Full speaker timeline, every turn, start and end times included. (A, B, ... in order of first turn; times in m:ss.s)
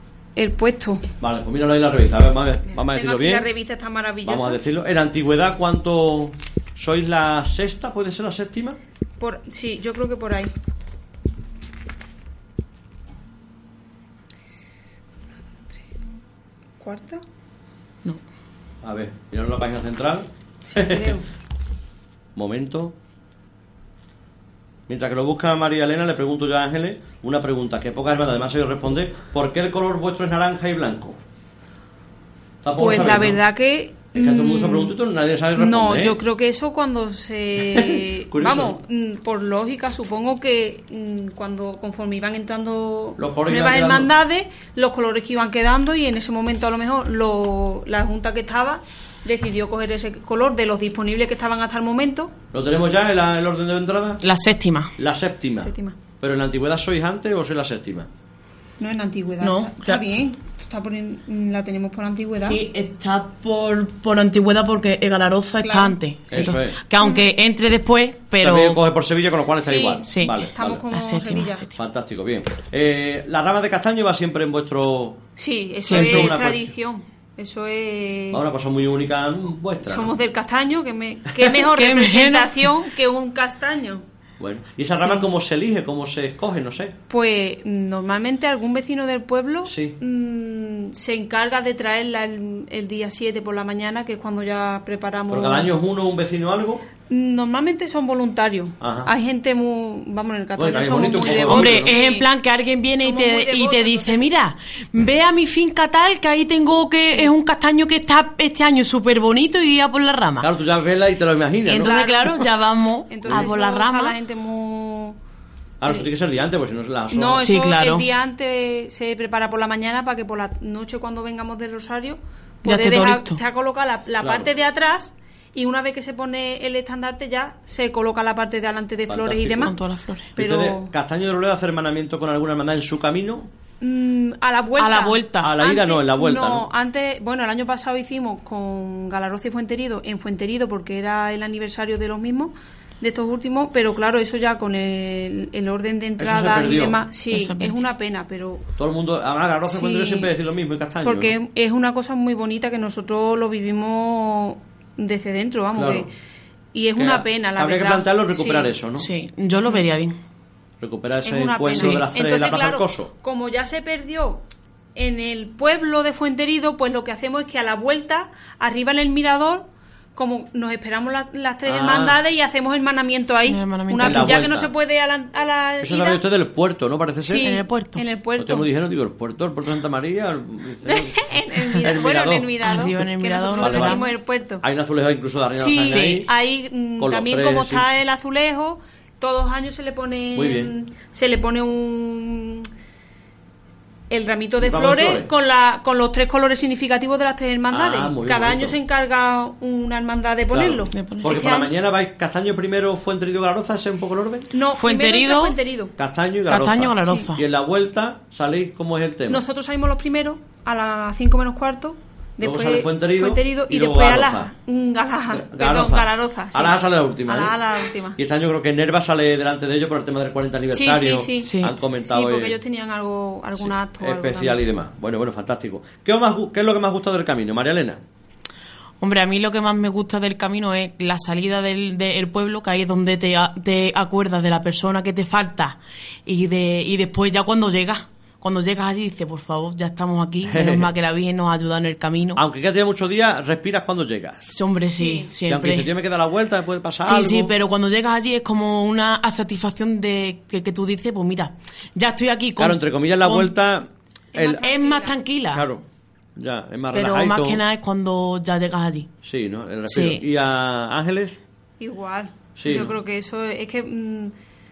0:00.4-0:01.0 A
0:01.2-0:03.5 B
0:02.6-0:04.6 A
0:04.2-0:08.8 B
0:09.2-0:10.5 A
0:16.8-0:17.2 A
0:18.8-0:21.2 B
0:20.6-0:21.3 A
0:22.4-0:22.9 B
0:24.9-0:31.2 B
0:32.6-0:33.4 B
0:32.8-0:34.9 A
0:34.1-0:36.2 B
0:35.5-0:52.3 A
0:37.6-0:38.7 B
0:43.2-0:44.1 B
0:52.5-0:54.2 B
0:54.2-0:54.9 C
0:55.0-0:58.1 B
0:55.6-0:56.0 A
0:58.8-1:02.6 A
0:59.4-1:00.0 C
1:02.3-1:08.8 C
1:05.6-1:06.4 A
1:06.3-1:06.8 B
1:08.4-1:10.8 B
1:09.6-1:11.7 A
1:10.0-1:11.7 C
1:11.8-1:15.2 B
1:15.4-1:18.4 A
1:15.8-1:16.4 C
1:15.9-1:16.7 B
1:18.3-1:20.1 B
1:19.8-1:24.0 A
1:21.6-1:22.7 C
1:24.4-1:26.9 B
1:27.1-1:35.7 A
1:29.6-1:30.0 B
1:35.3-1:36.8 B
1:37.1-1:42.2 A
1:38.8-1:39.1 B
1:40.6-1:41.9 B
1:41.3-1:50.5 C
1:43.0-1:44.3 A
1:50.4-1:52.0 B
1:51.6-1:54.1 C
1:51.8-1:52.5 A
1:53.1-1:55.2 A
1:55.8-1:57.5 B
1:57.1-2:09.7 A
1:57.4-1:58.0 C
2:02.6-2:03.4 C
2:04.2-2:04.5 B
2:09.1-2:09.7 B
2:09.6-2:10.3 C
2:10.4-2:13.5 B
2:10.4-2:10.9 A
2:13.8-2:28.6 A
2:14.8-2:15.6 C
2:15.4-2:16.7 B
2:26.2-2:27.0 B
2:27.3-2:27.7 C
2:28.8-2:31.4 B
2:29.6-2:30.3 A
2:31.0-2:36.1 A
2:35.7-2:36.1 B
2:36.7-2:38.8 A
2:37.0-2:39.1 B
2:39.0-2:40.1 C
2:40.8-2:43.1 B
2:41.2-2:44.4 A
2:41.7-2:42.0 C
2:44.9-2:56.2 A
2:51.6-2:52.2 B
2:53.5-2:54.4 C
2:54.0-2:54.7 B
2:55.8-2:57.5 B
2:57.2-2:58.7 A
2:57.4-2:58.0 C
2:58.4-3:02.5 B
3:00.8-3:04.6 A
3:02.6-3:04.0 C
3:03.6-3:04.0 B
3:04.6-3:06.3 B
3:05.5-3:12.7 A
3:05.8-3:06.3 C
3:07.0-3:07.8 B
3:10.3-3:10.7 B
3:14.1-3:21.7 A
3:14.6-3:15.3 B
3:17.7-3:18.8 B
3:20.5-3:24.5 B
3:20.9-3:21.6 C
3:24.5-3:25.9 A
3:24.8-3:25.6 C
3:26.0-3:29.4 B
3:26.5-3:27.4 C
3:27.0-3:27.3 A
3:29.3-3:38.2 A
3:32.4-3:34.5 B
3:35.3-3:37.6 B
3:38.2-3:42.6 B
3:40.7-3:44.6 A
3:41.4-3:41.8 C
3:43.5-3:48.0 B
3:49.0-4:02.4 C
4:00.4-4:00.9 B
4:02.4-4:04.5 B
4:04.5-4:05.9 C
4:04.9-4:05.3 A
4:05.5-4:07.5 B
4:07.0-4:13.5 C
4:12.6-4:14.6 B
4:14.3-4:15.2 A
4:14.6-4:15.6 C
4:15.5-4:15.8 B
4:16.4-4:17.6 B
4:16.9-4:19.1 C
4:19.2-4:21.4 B
4:19.9-4:20.2 C
4:21.8-4:24.3 A
4:22.6-4:22.9 B